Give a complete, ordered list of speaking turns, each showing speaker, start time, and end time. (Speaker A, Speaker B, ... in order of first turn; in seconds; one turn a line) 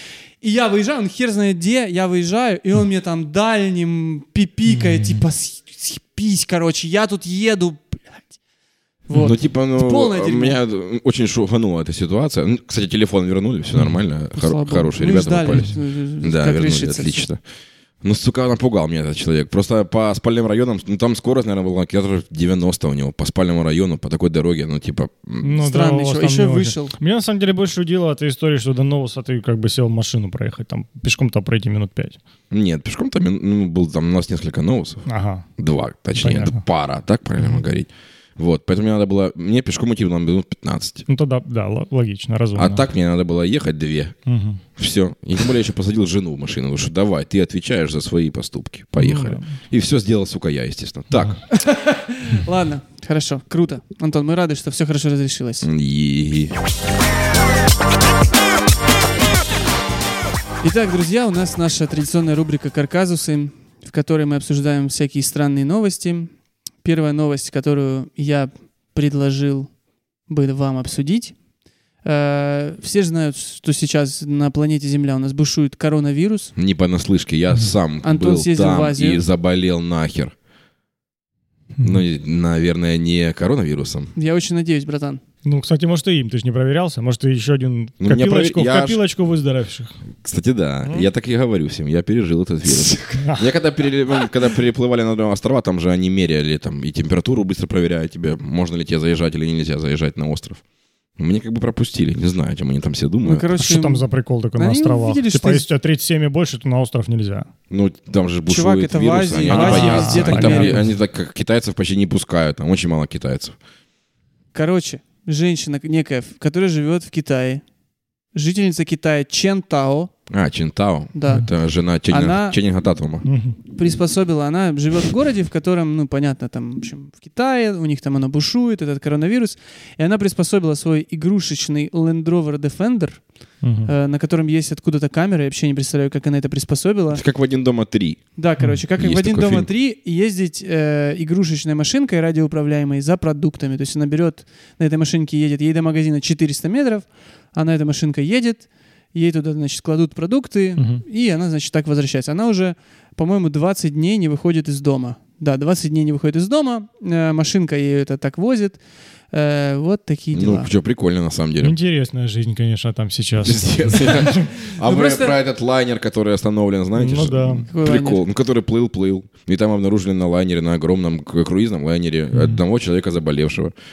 Speaker A: 0.4-8.2
Speaker B: 4.7-5.2
Speaker A: 9.1-10.6
Speaker C: 9.1-17.4
Speaker B: 13.7-14.0
Speaker A: 14.3-17.2
Speaker C: 18.0-25.5
Speaker B: 25.4-32.2
Speaker A: 25.6-26.9
Speaker C: 32.5-35.0
Speaker B: 35.0-35.5
Speaker C: 35.6-41.0
Speaker B: 36.2-36.6
Speaker B: 41.1-42.8
Speaker C: 42.5-44.1
Speaker B: 44.2-44.6
Speaker C: 44.8-51.4
Speaker B: 49.0-49.5
Speaker A: 51.5-55.7
Speaker C: 55.6-56.5
Speaker A: 60.6-66.3
Speaker A: 66.8-69.7
Speaker A: 70.3-71.3
Speaker A: 72.0-76.5
Speaker C: 76.5-80.3
Speaker A: 78.0-79.2
Speaker B: 81.8-82.0
Speaker C: 81.8-84.1
Speaker A: 84.2-85.2
Speaker B: 85.4-89.9
Speaker C: 88.0-89.0
Speaker C: 90.2-100.6
Speaker B: 93.1-93.5
Speaker C: 101.2-103.5
Speaker A: 103.2-105.7
Speaker B: 103.6-107.5
Speaker C: 107.7-113.5
Speaker A: 108.5-110.8
Speaker B: 109.5-110.9
Speaker A: 114.5-117.6
Speaker A: 118.3-120.1
Speaker C: 120.3-123.3
Speaker A: 121.1-121.5
Speaker A: 122.1-122.6
Speaker B: 123.2-123.6
Speaker A: 123.7-133.2
Speaker B: 133.6-133.9
Speaker A: 133.8-137.2
Speaker C: 137.1-138.2
Speaker A: 138.3-158.8
Speaker C: 139.0-139.7
Speaker B: 150.8-151.0
Speaker A: 159.3-160.7
Speaker C: 160.3-161.7
Speaker B: 161.6-164.5
Speaker C: 163.4-173.7
Speaker A: 164.8-165.4
Speaker B: 166.9-167.7
Speaker A: 167.7-168.2
Speaker B: 172.3-172.6